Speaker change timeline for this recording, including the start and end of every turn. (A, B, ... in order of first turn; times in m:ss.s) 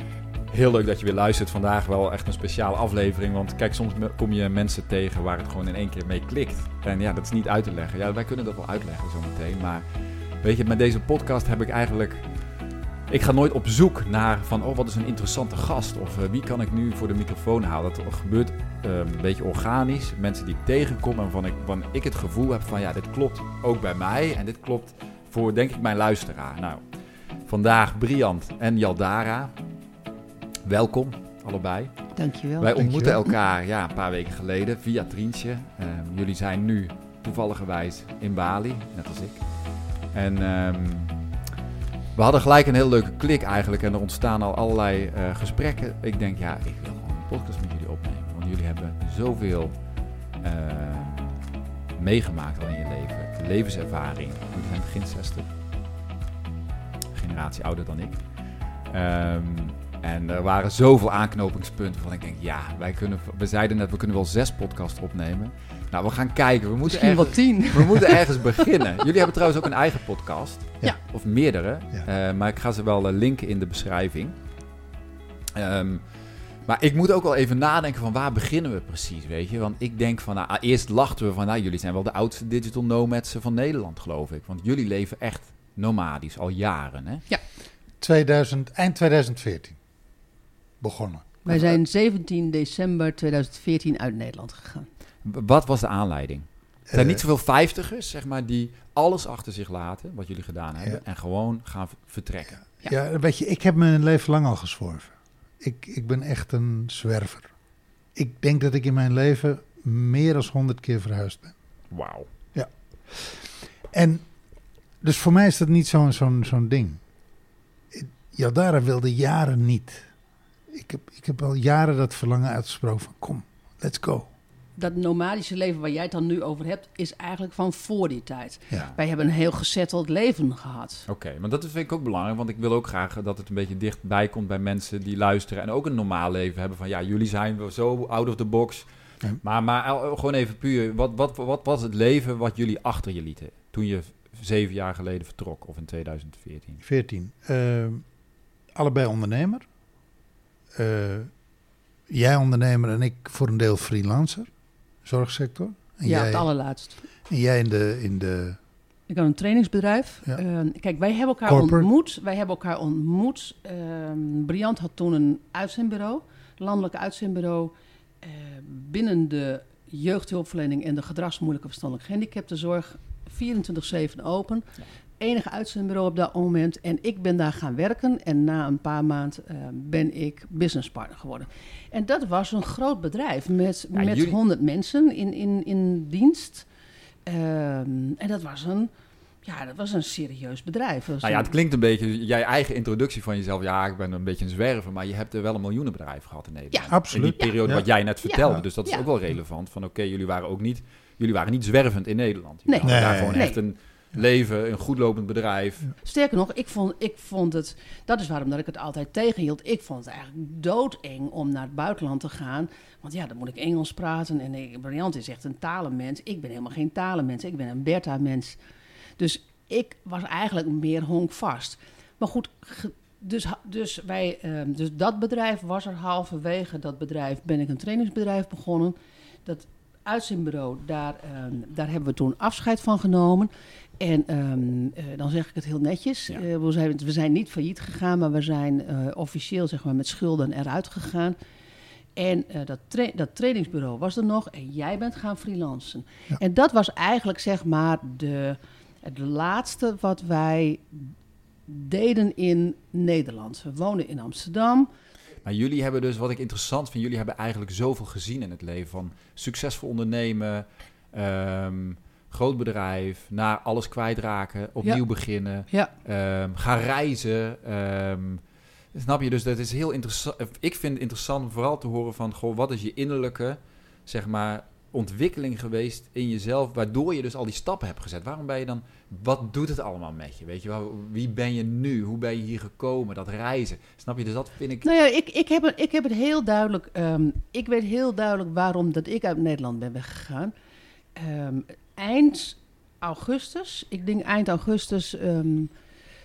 0:00.5-0:12.5 A
0:13.1-0:29.6 A
0:30.6-0:41.2 A
0:32.2-0:32.7 B
0:32.8-0:33.2 C
0:42.1-0:51.4 A
0:52.0-0:55.5 A
0:57.1-1:14.4 A
1:06.9-1:08.7 B
1:15.5-1:16.1 A
1:16.6-1:27.2 A
1:28.0-1:29.8 C
1:30.8-1:31.8 C
1:31.4-1:34.9 B
1:35.2-1:42.6 A
1:36.9-1:37.2 C
1:42.8-1:47.5 C
1:48.1-1:51.5 C
1:51.9-1:52.3 A
1:52.5-1:54.2 C
1:55.0-1:57.0 C
1:57.9-2:00.1 C
2:00.7-2:04.3 C
2:04.8-2:11.0 B
2:08.7-2:09.0 A
2:11.1-2:18.9 A
2:19.4-2:26.8 A
2:26.8-2:28.0 C
2:28.7-2:29.7 C
2:30.7-2:31.3 C
2:32.1-2:34.5 C
2:35.0-2:36.5 C
2:36.0-2:37.0 B
2:37.3-2:38.6 C
2:39.1-3:06.7 B
2:41.4-2:41.9 C
3:03.9-3:04.4 A
3:07.2-3:08.9 B
3:09.4-3:11.5 B
3:11.2-3:25.9 A
3:16.7-3:17.5 B
3:16.9-3:17.8 C
3:18.2-3:19.0 B
3:22.7-3:23.6 B
3:22.8-3:23.5 C
3:26.0-3:38.6 B
3:39.2-4:01.4 B
4:02.2-4:11.1 B
4:11.7-4:14.9 B
4:15.4-4:44.9 A
4:24.8-4:25.9 B
4:44.8-4:50.5 B
4:51.1-4:55.7 B